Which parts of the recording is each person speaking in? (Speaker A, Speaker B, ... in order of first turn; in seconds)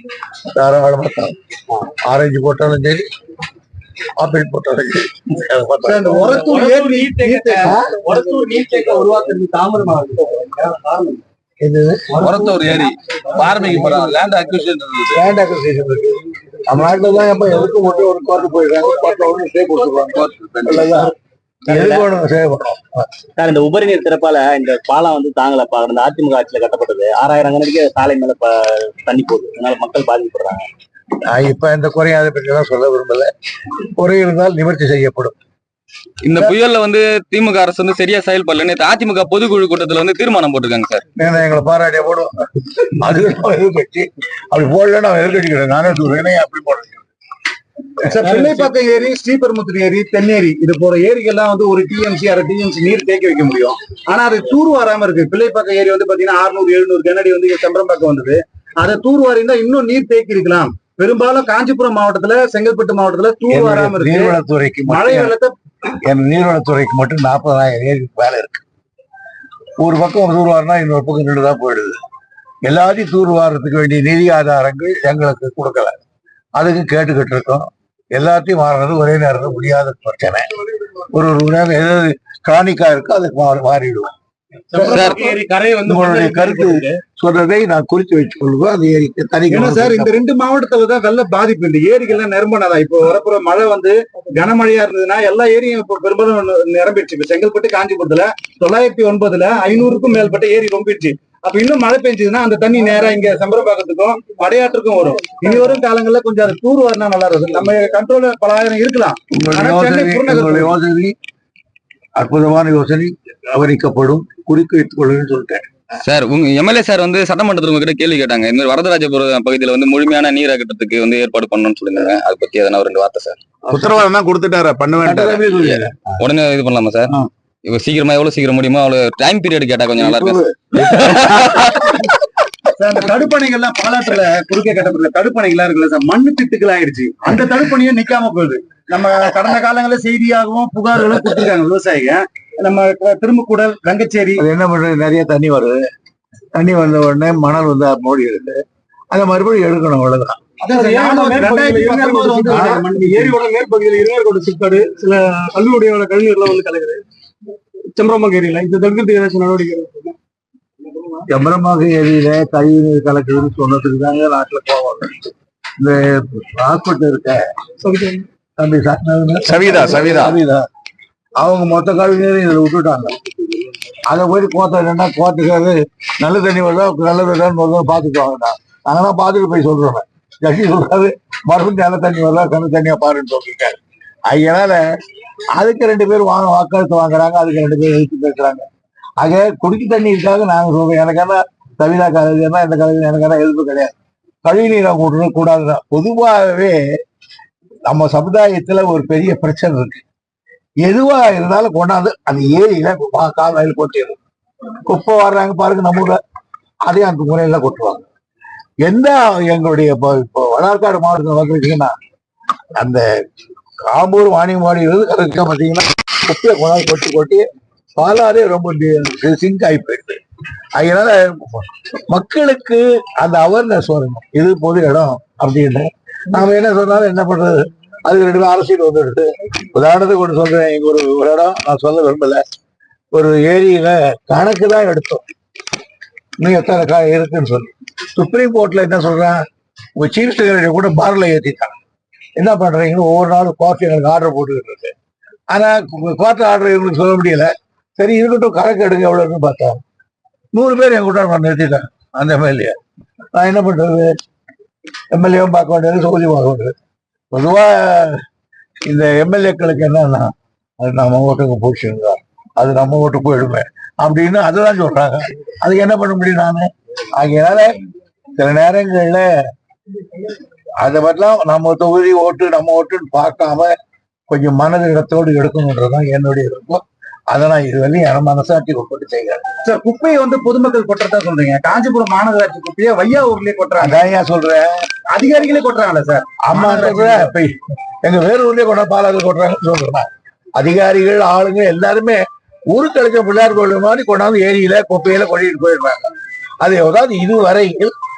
Speaker A: 0.5-1.4, 2.0-3.1, 4.2-6.2, 7.6-8.0, 11.6-12.3, 15.1-21.1, 21.7-23.1, 31.2-35.4, 41.2-47.1, 63.5-65.3, 65.9-68.6, 69.8-72.0, 72.7-76.0, 76.6-80.5, 81.0-84.2, 85.8-90.1, 109.3-111.2, 112.2-115.7, 125.0-126.0, 130.0-131.5, 144.4-145.8, 146.6-150.4, 152.5-152.8, 161.3-165.2, 165.8-167.4, 168.6-170.7, 171.4-173.2, 174.1-184.8, 185.6-188.7, 189.2-196.8, 197.9-200.0, 200.8-204.2, 204.9-206.2, 206.8-208.1, 208.8-211.9, 212.8-213.1, 213.8-217.5, 218.0-220.2, 220.8-232.4, 233.1-235.2, 236.4-239.4, 240.0-241.8, 242.4-244.9, 245.5-249.8, 250.5-252.8, 253.3-254.2, 255.1-256.8, 257.3-258.2, 258.9-267.8, 268.4-269.4, 270.8-273.7, 274.3-279.4, 283.8-284.8, 286.4-296.1, 296.6-297.9
Speaker B: 5.8-7.8, 48.0-64.3, 64.9-65.5, 84.7-85.4, 89.5-110.7, 132.8-144.4, 150.6-153.4, 279.6-284.0, 285.1-287.3
Speaker C: 6.2-11.2, 12.2-12.8, 13.4-14.1, 84.8-86.8, 150.7-157.0, 157.9-160.2, 167.8-168.2
Speaker D: 12.2-15.2, 20.1-20.9, 36.2-41.0, 84.8-85.4, 116.0-123.4, 125.6-127.1, 127.7-132.1, 169.5-170.3
Speaker E: 21.7-22.1, 23.4-30.7
Speaker F: 123.7-125.5, 170.0-170.3